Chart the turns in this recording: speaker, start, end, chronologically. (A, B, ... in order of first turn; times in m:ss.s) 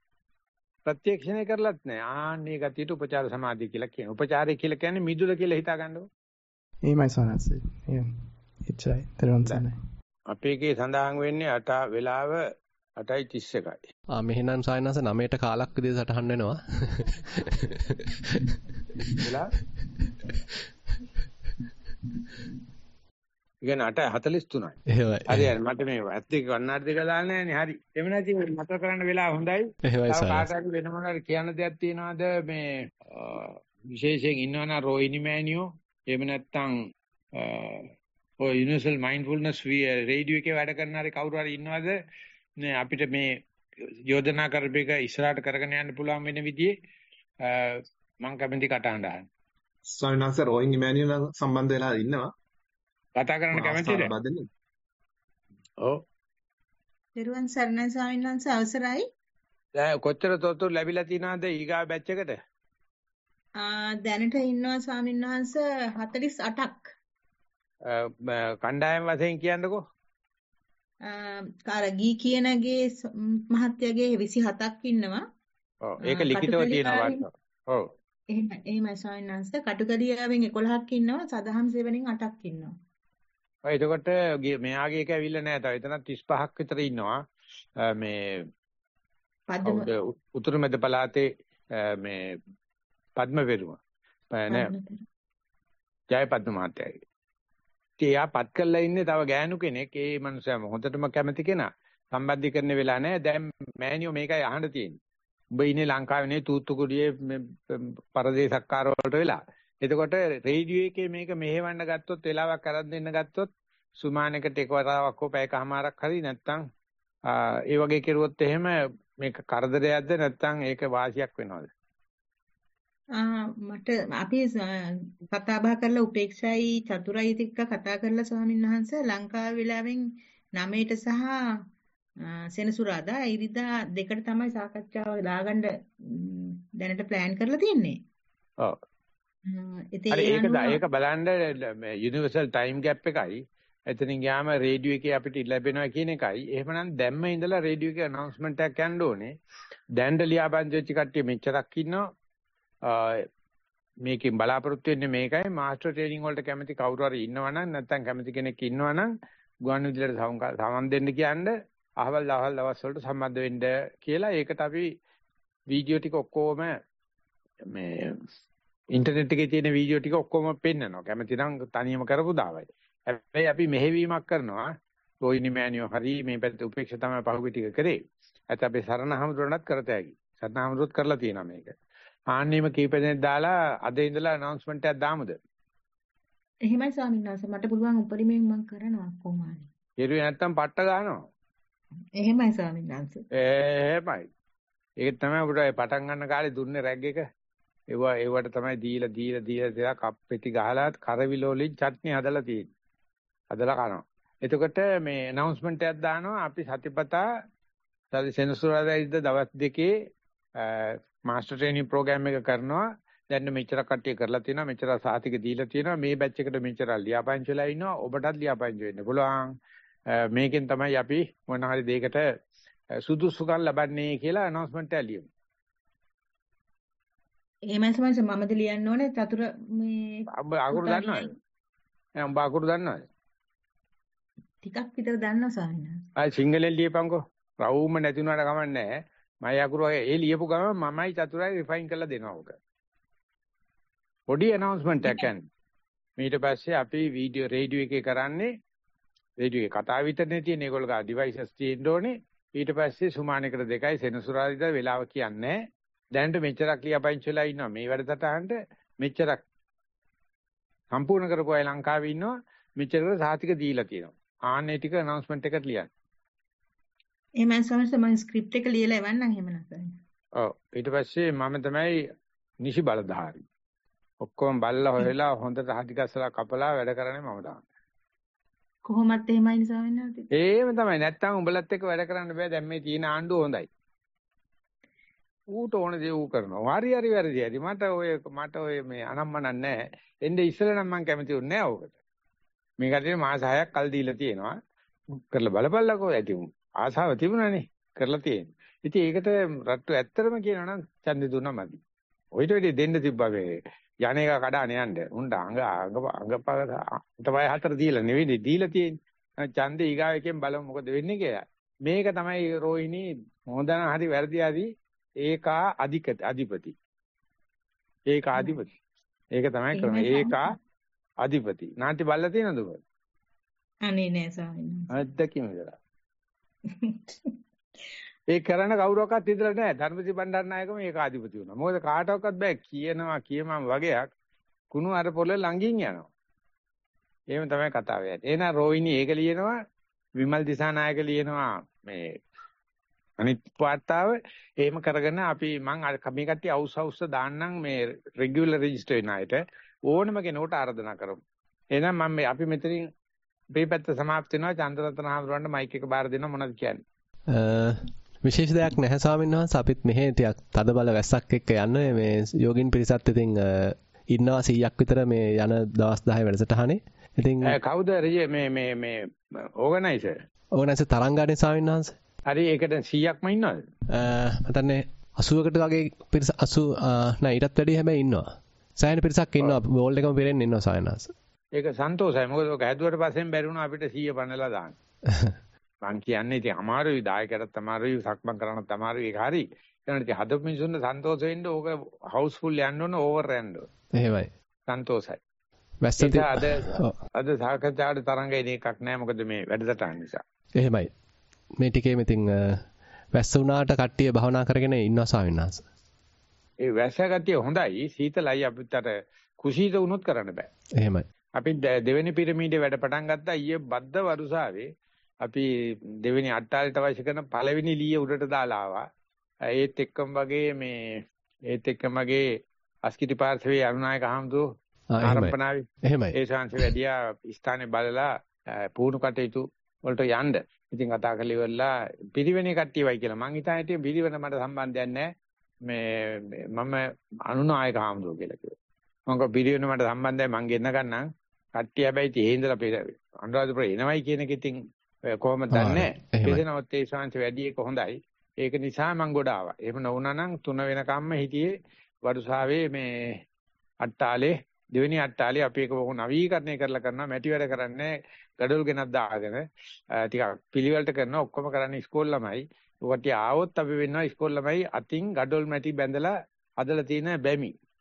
0:00.9-0:06.1 A
0:06.9-0:08.1 B
0:08.6-0:09.8 B
0:10.3-0:13.8 A
0:14.1-0:19.2 C
0:19.2-0:19.5 A
0:20.1-0:20.4 C
0:23.6-0:36.8 A
0:24.9-0:25.5 C
0:29.8-0:30.5 C
0:37.4-0:42.0 A
0:42.6-0:46.7 A
0:47.4-0:49.3 A
0:49.9-0:52.3 D
0:53.2-0:54.1 A
0:53.5-0:54.5 D
0:57.2-0:59.1 E
0:59.8-1:02.4 A
1:03.6-1:06.9 E
1:07.8-1:09.8 A
1:11.0-1:15.2 E
1:15.8-1:17.9 A
1:16.0-1:17.2 E
1:18.3-1:22.8 E
1:23.6-1:27.2 A
1:27.8-1:28.5 A
1:29.5-1:29.9 E
1:29.6-1:32.4 A
1:33.2-1:33.8 A
1:34.3-1:34.7 A
1:34.5-1:35.0 E
1:36.1-1:37.0 A
1:38.0-1:45.0 A
1:45.6-1:56.6 A
1:57.3-2:01.7 A
2:03.1-2:11.4 E
2:12.5-2:18.0 E
2:19.4-2:20.8 E
2:20.1-2:29.3 A
2:30.0-2:32.0 A
2:32.8-2:33.3 A
2:34.0-2:39.1 A
2:39.6-2:44.9 A
2:45.7-2:46.7 A
2:47.7-2:48.2 A
2:48.9-2:54.7 A
2:55.2-3:01.7 A
3:02.3-3:05.4 A
3:06.7-3:09.7 E
3:10.0-3:11.2 A
3:12.2-3:13.2 E
3:13.4-3:14.3 A
3:15.0-3:17.2 A
3:17.9-3:22.7 A
3:23.5-3:27.2 A
3:28.1-3:29.9 A
3:30.6-3:39.5 A
3:40.1-3:42.2 A
3:43.0-3:45.3 A
3:47.7-3:51.4 E
3:50.3-3:51.3 A
3:52.2-3:53.0 A
3:54.6-3:56.0 E
3:56.2-4:02.6 A
4:04.3-4:05.5 A
4:06.2-4:08.5 A
4:09.4-4:15.6 A
4:16.1-4:19.4 A
4:20.9-4:25.9 A
4:27.4-4:30.0 E
4:30.4-4:32.1 A
4:32.6-4:33.4 A
4:34.2-4:37.6 A
4:38.9-4:40.3 E
4:40.4-4:43.7 A
4:45.5-4:51.9 A
4:52.8-4:54.6 A
4:55.2-5:01.8 A
5:02.4-5:14.7 A
5:15.2-5:16.7 A
5:18.1-5:18.7 A
5:18.4-5:18.6 E
5:19.4-5:20.5 A
5:19.7-5:20.6 E
5:21.2-5:22.8 A
5:23.8-5:24.9 E
5:24.9-5:25.8 A
5:28.3-5:34.0 A
5:34.7-5:36.1 A
5:37.3-5:39.6 A
5:40.2-5:42.2 A
5:43.2-5:51.2 A
5:51.7-5:52.9 A
5:53.5-5:56.8 A
5:57.3-6:07.6 C
6:07.4-6:10.2 A
6:10.6-6:12.0 C
6:12.3-6:13.6 A
6:13.9-6:18.2 C
6:18.8-6:21.1 C
6:21.6-6:24.8 A
6:25.1-6:25.4 C
6:25.8-6:33.7 A
6:33.9-6:34.3 C
6:34.7-6:35.2 A
6:35.8-6:37.0 C
6:36.0-6:40.2 A
6:40.6-6:40.9 C
6:41.6-6:45.7 C
6:46.6-6:50.5 A
6:50.8-6:51.1 C
6:51.4-6:54.7 A
6:55.2-6:55.5 A
6:56.0-6:58.8 A
6:59.5-7:02.3 A
7:02.9-7:04.4 A
7:04.9-7:06.7 C
7:05.0-7:08.1 A
7:08.8-7:15.1 A
7:15.6-7:18.5 A
7:19.1-7:31.5 A
7:25.5-7:26.4 C
7:32.0-7:33.2 A
7:33.8-7:39.4 A
7:40.0-7:47.5 A